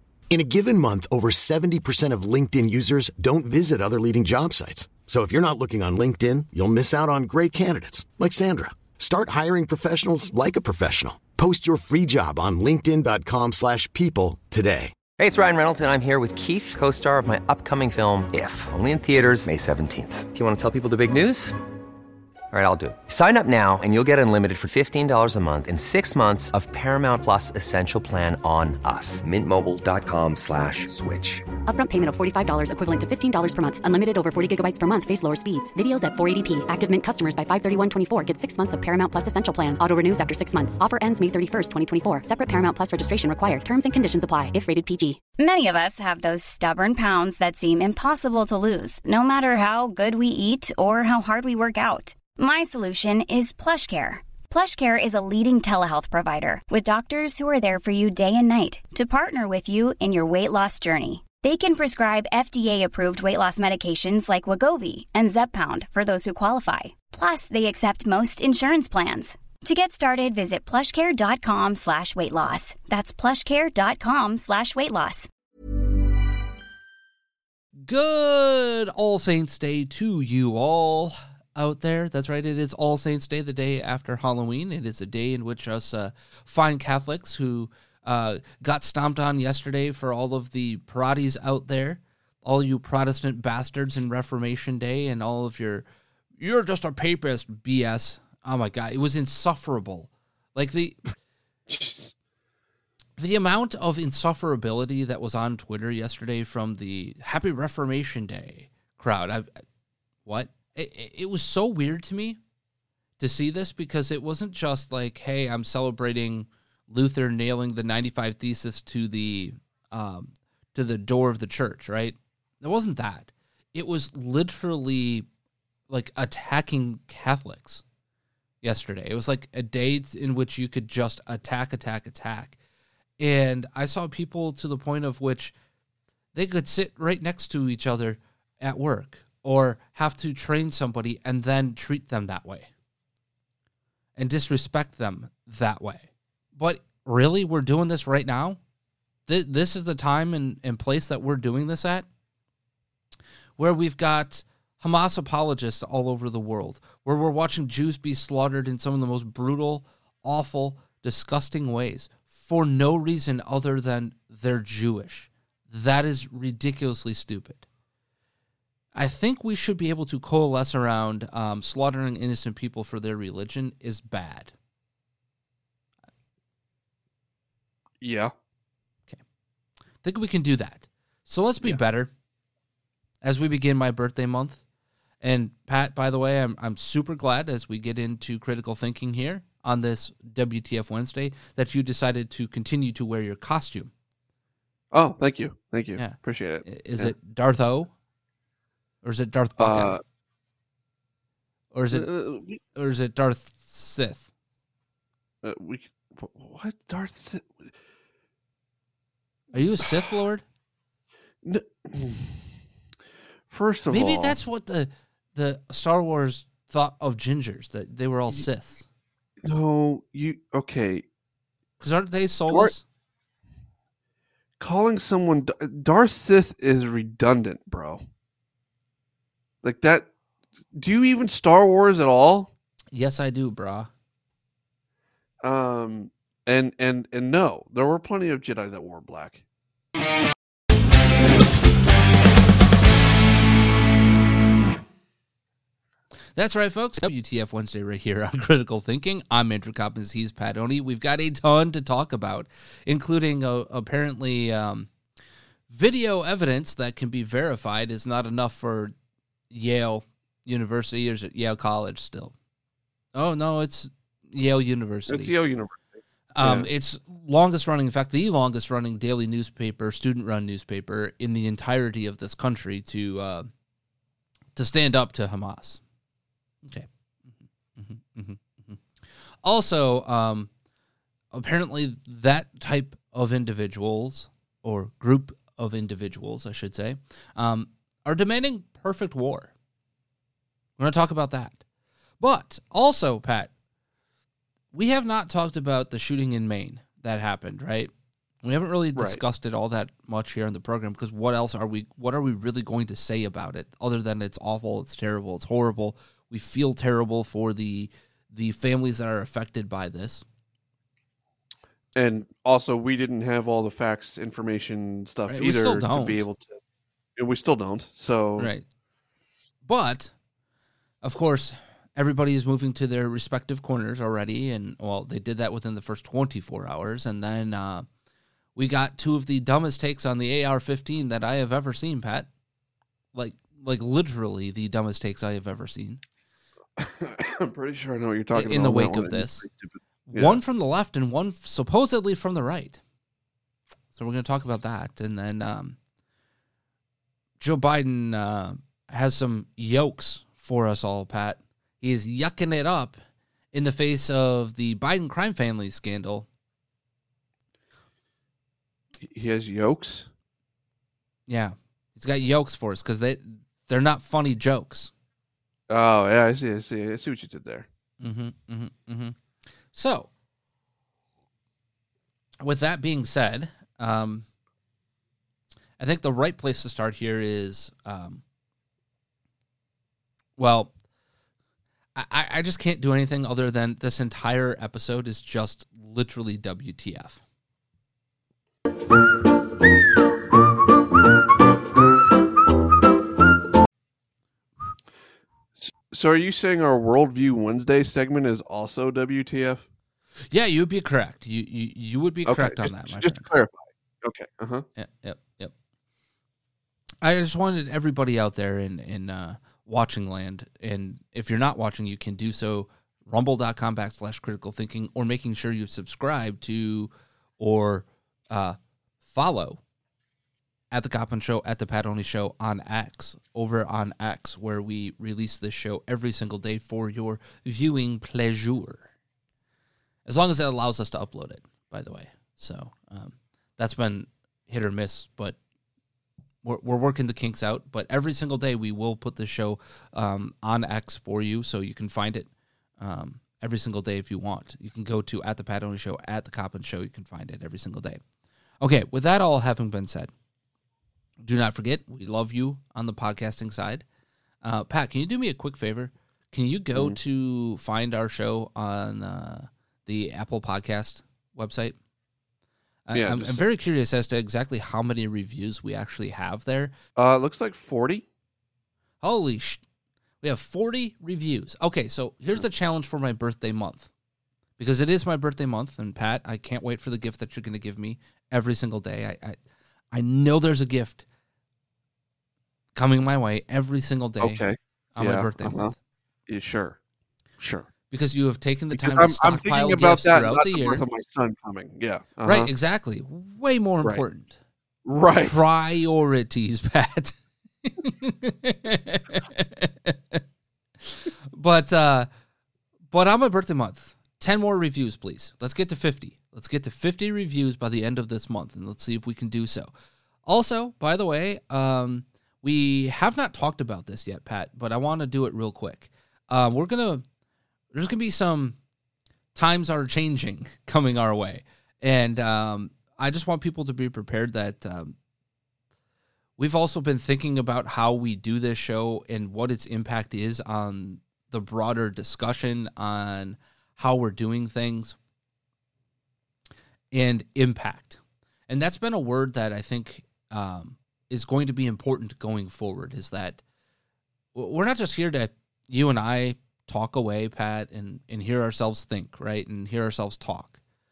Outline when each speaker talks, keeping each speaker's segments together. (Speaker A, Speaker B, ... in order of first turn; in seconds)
Speaker A: 0.3-14.9
Speaker B: 15.2-21.6, 22.5-31.4
Speaker C: 31.7-45.2
Speaker D: 45.4-75.3
Speaker E: 77.9-95.9, 96.4-101.1, 103.2-109.5, 110.3-112.4, 113.2-125.3, 125.9-127.8, 128.6-132.6, 133.2-135.5, 136.3-142.7, 144.2-148.6, 149.3-152.1, 153.6-167.7, 168.9-174.5, 180.0-182.1, 183.2-184.6, 185.2-193.9, 196.0-197.9, 199.0-199.9, 201.7-202.1, 202.7-204.3, 209.5-210.4, 213.9-218.9, 221.8-222.8, 232.9-233.9, 246.3-254.9, 255.7-258.9, 259.5-262.3, 263.1-265.3, 266.3-273.5, 274.6-275.8, 276.6-278.8, 279.4-280.5, 281.3-289.5, 290.8-291.6, 292.2-293.5, 294.7-297.9, 298.4-310.2, 315.3-316.2, 318.4-318.6, 319.6-320.1, 321.0-327.9, 328.6-332.3, 333.1-336.0, 338.3-339.4, 340.1-342.8, 343.9-345.8, 347.4-353.0, 353.5-356.3, 361.3-364.9, 368.0-369.2, 369.7-370.1, 372.4-374.3, 375.8-378.2, 380.4-380.7, 381.9-387.2, 400.3-403.3, 404.8-405.5, 407.0-419.6, 420.7-428.9, 430.1-435.4, 436.4-448.0, 448.6-450.1, 451.2-453.9, 454.4-461.8, 462.9-466.7, 469.0-469.6, 470.2-473.9, 474.6-479.4, 479.9-481.1, 482.8-484.4, 484.9-485.7, 487.9-490.9, 492.2-494.4, 495.2-500.2, 501.3-502.1, 502.9-509.7, 510.3-517.0, 517.7-518.6, 519.4-525.0, 526.4-535.0, 536.9-543.4, 544.4-550.6
Speaker F: 101.7-102.1, 178.0-178.3, 194.9-197.1, 199.6-200.0, 201.9-202.6, 205.4-207.7, 211.4-212.5, 213.5-214.4, 219.4-221.1, 224.6-228.0, 229.6-230.1, 230.7-232.5, 235.4-239.4, 265.1-266.7, 299.0-299.2, 311.9-316.6, 317.2-318.5, 336.8-340.4, 359.0-360.1, 365.7-367.7, 395.6-399.6, 402.3-404.7, 462.9-463.4, 467.0-468.1, 484.2-485.7, 486.3-486.8, 487.4-487.7, 488.8-492.5, 494.9-495.4